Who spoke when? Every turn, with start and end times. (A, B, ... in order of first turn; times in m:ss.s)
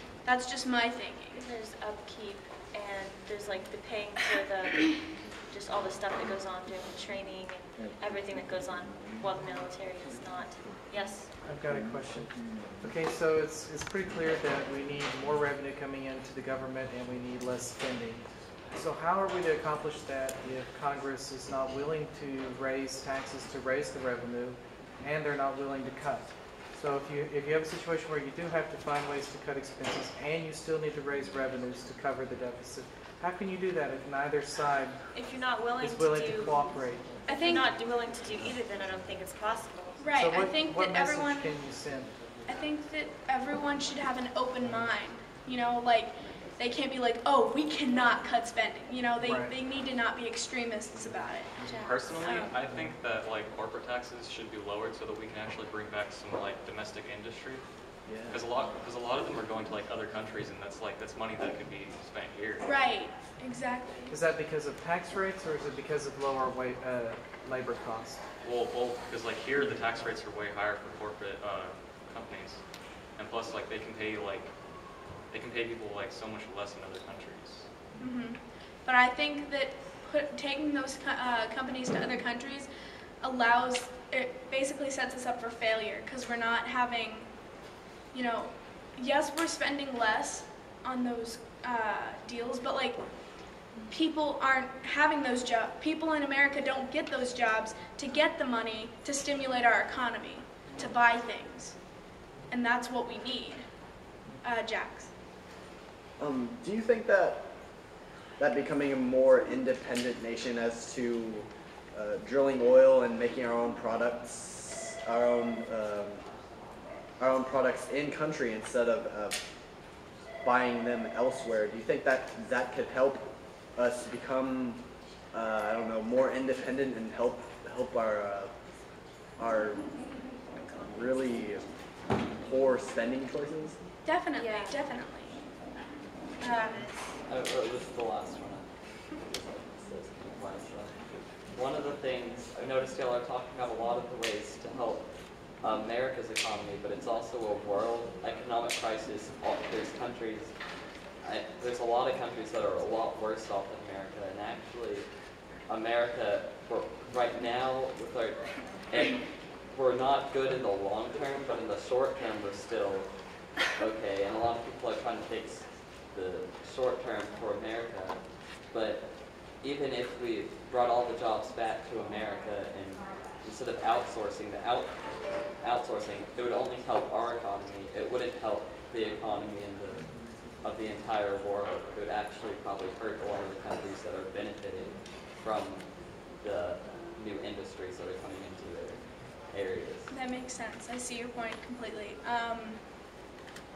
0:00.2-0:01.4 A
0:01.3-0:11.3 B
0:11.4-0:35.1 C
0:35.1-0:40.0 B
0:35.8-0:37.2 C
0:37.2-0:37.7 A
0:40.0-0:41.5 A
0:40.1-0:42.4 C
0:42.4-0:51.6 A
0:49.2-0:49.5 C
0:51.6-0:52.5 B
0:51.6-1:02.6 D
0:58.1-0:58.4 E
1:02.6-1:04.1 A
1:04.1-1:08.2 C
1:08.4-1:12.6 D
1:13.2-1:14.5 D
1:15.3-1:17.7 D
1:18.0-1:22.7 A
1:23.2-1:27.3 A
1:28.1-1:33.0 A
1:33.9-1:41.8 A
1:42.5-1:43.7 A
1:44.4-1:45.1 A
1:46.2-1:47.5 E
1:48.4-1:56.2 E
1:57.2-1:59.4 E
2:00.4-2:08.5 E
2:09.4-2:09.9 E
2:10.5-2:11.4 B
2:10.8-2:11.6 E
2:12.3-2:13.8 E
2:14.0-2:15.4 A
2:14.3-2:14.8 B
2:16.4-2:17.0 A
2:16.5-2:16.9 B
2:17.2-2:25.1 F
2:25.6-2:30.5 F
2:31.2-2:35.1 F
2:35.7-3:10.1 F
3:10.1-3:12.8 A